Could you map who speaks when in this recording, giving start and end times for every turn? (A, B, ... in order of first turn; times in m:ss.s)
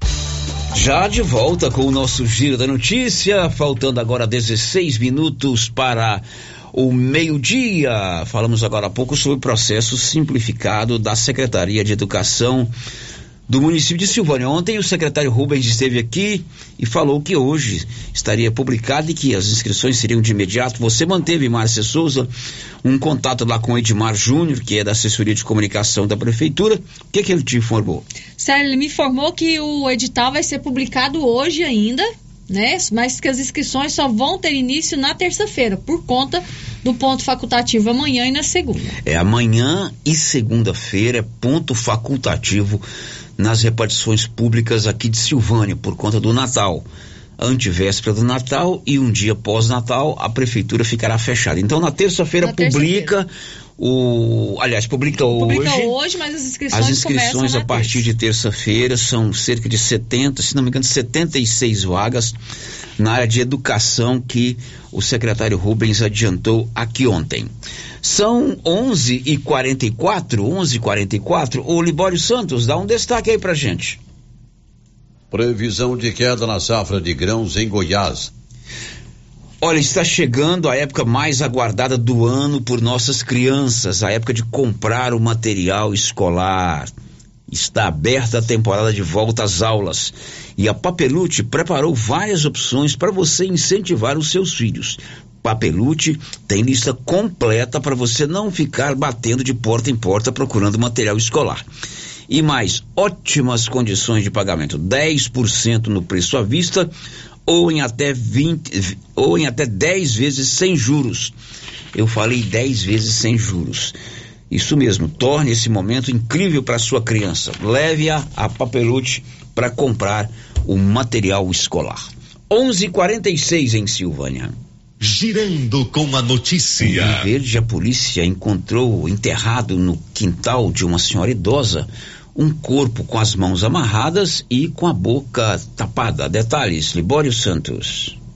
0:00.7-0:12.7 A
0:13.5-0:22.3 A
0:22.8-0:28.0 A
0:28.4-0:38.9 B
0:39.0-0:42.8 A
0:43.4-0:46.9 A
0:47.4-0:55.9 A
0:52.4-0:53.1 B
0:55.3-0:58.0 B
0:56.7-1:02.4 A
1:03.0-1:07.5 A
1:08.0-1:14.0 A
1:15.3-1:18.3 C
1:19.6-1:26.9 A
1:27.5-1:41.6 A
1:42.3-1:46.9 A
1:47.5-1:51.3 A
1:51.9-1:54.0 A
1:54.5-2:04.5 A
2:05.0-2:07.2 D
2:06.8-2:18.2 A